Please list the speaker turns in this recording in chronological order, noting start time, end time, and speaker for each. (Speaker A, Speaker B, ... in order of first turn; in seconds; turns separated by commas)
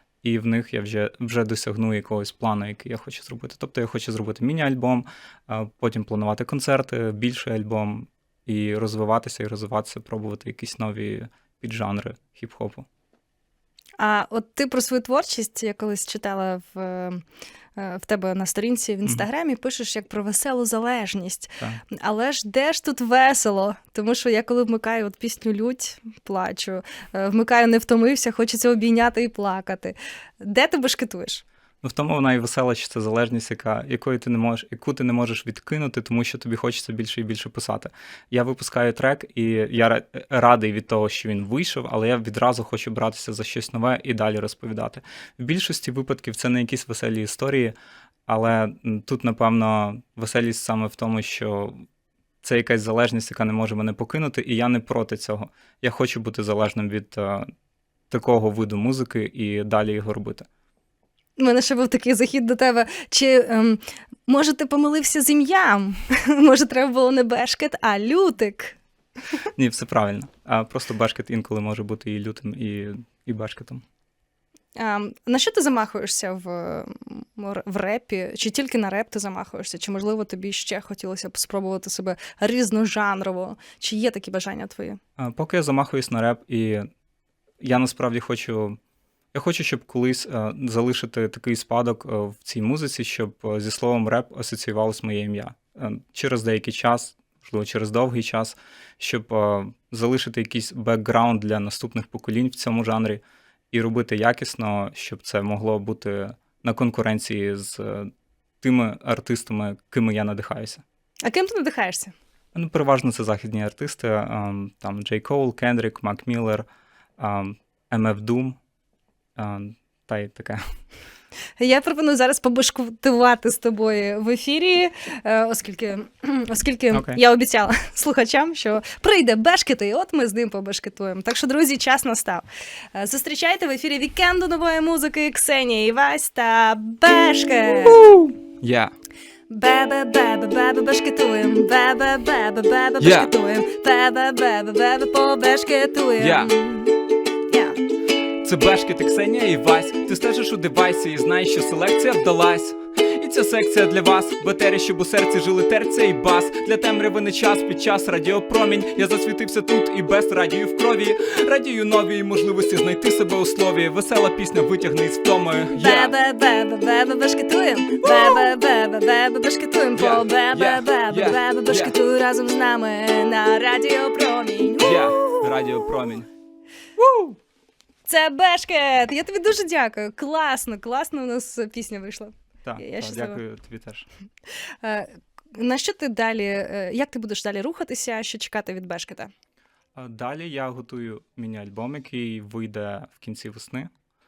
Speaker A: 0.2-12.9, Speaker B: 14.0-17.2, Speaker B: 17.8-31.4, Speaker A: 31.8-47.7, Speaker A: 48.3-51.8, Speaker A: 52.4-57.5, Speaker A: 58.1-60.5, Speaker B: 61.4-68.8, Speaker A: 69.5-73.8, Speaker B: 74.8-85.0, Speaker A: 85.2-86.9, Speaker A: 87.6-88.8, Speaker A: 89.3-108.1, Speaker A: 108.6-110.8, Speaker B: 111.2-112.1, Speaker A: 112.5-116.6, Speaker A: 117.2-118.6, Speaker A: 119.3-120.6, Speaker B: 121.6-138.1, Speaker A: 126.9-127.2, Speaker A: 137.9-138.9, Speaker B: 139.5-146.9, Speaker A: 143.0-143.3, Speaker A: 146.2-146.5, Speaker B: 147.5-147.8, Speaker A: 148.4-166.1, Speaker B: 165.7-175.5, Speaker A: 168.0-168.5, Speaker A: 170.0-171.9, Speaker A: 174.8-176.3, Speaker B: 178.1-183.4, Speaker A: 182.6-184.1, Speaker B: 184.8-189.3, Speaker A: 189.9-193.9